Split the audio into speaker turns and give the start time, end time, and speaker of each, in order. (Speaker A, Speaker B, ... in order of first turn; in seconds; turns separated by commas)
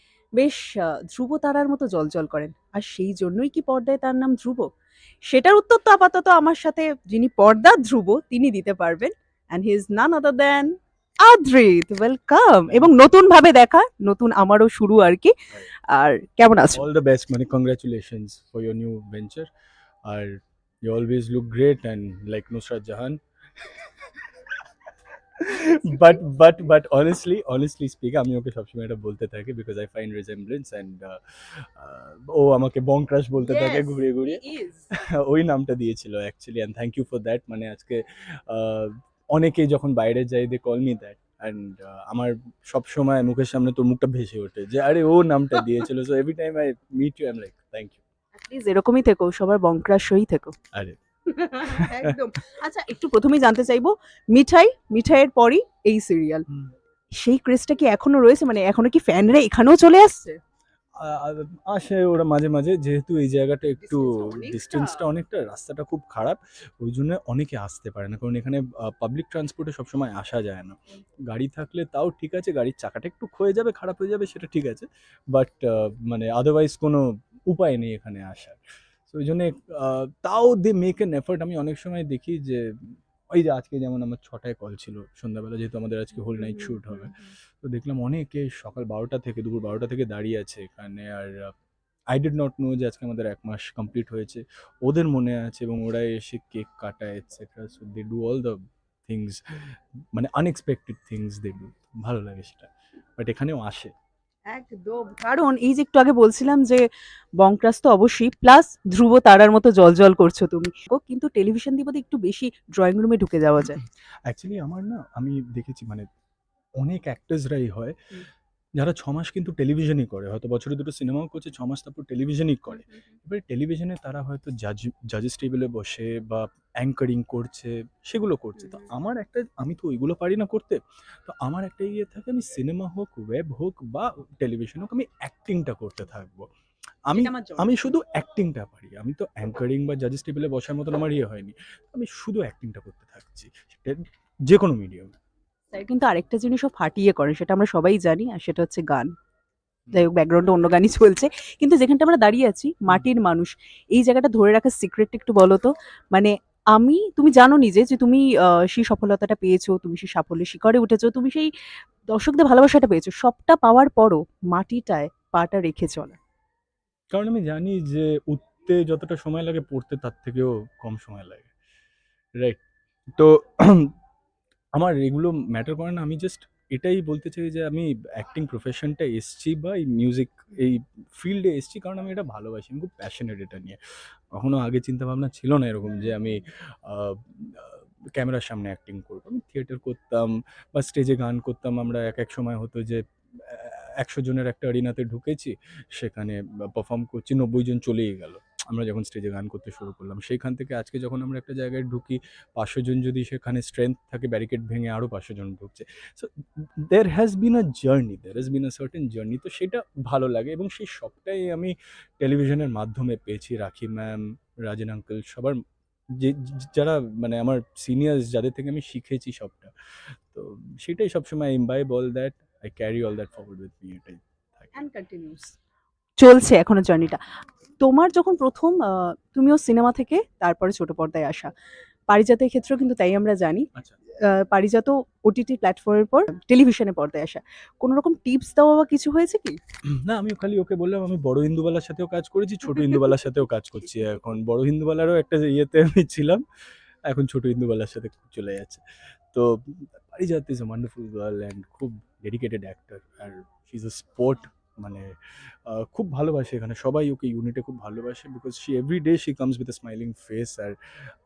Speaker A: 0.4-4.7, Speaker A: 5.3-15.3, Speaker A: 15.9-16.8, Speaker B: 16.7-19.5, Speaker B: 20.1-24.5, Speaker B: 25.4-34.4, Speaker A: 25.8-26.2, Speaker A: 33.4-34.9, Speaker B: 35.0-48.0, Speaker A: 48.4-50.5, Speaker B: 50.7-51.0, Speaker A: 51.3-56.5, Speaker B: 51.6-52.2, Speaker A: 57.2-60.4, Speaker B: 61.0-70.8, Speaker A: 63.8-65.0, Speaker B: 71.3-91.5, Speaker A: 86.3-87.3, Speaker B: 92.1-103.9, Speaker A: 104.5-106.8, Speaker A: 107.4-113.8, Speaker B: 113.8-116.1, Speaker B: 116.8-117.9, Speaker B: 118.8-136.4, Speaker A: 122.7-123.1, Speaker A: 128.6-128.9, Speaker B: 137.1-145.1, Speaker A: 137.1-137.8, Speaker A: 145.7-149.1, Speaker A: 149.9-161.5, Speaker A: 162.1-166.2, Speaker B: 167.1-171.5, Speaker B: 173.2-173.9, Speaker B: 174.8-183.8, Speaker B: 184.4-215.6, Speaker B: 216.1-219.7, Speaker B: 220.3-224.8, Speaker A: 224.7-225.5, Speaker A: 226.2-227.2, Speaker A: 227.8-231.5, Speaker A: 232.1-233.7, Speaker A: 234.3-239.6, Speaker B: 239.9-246.4, Speaker B: 247.1-260.7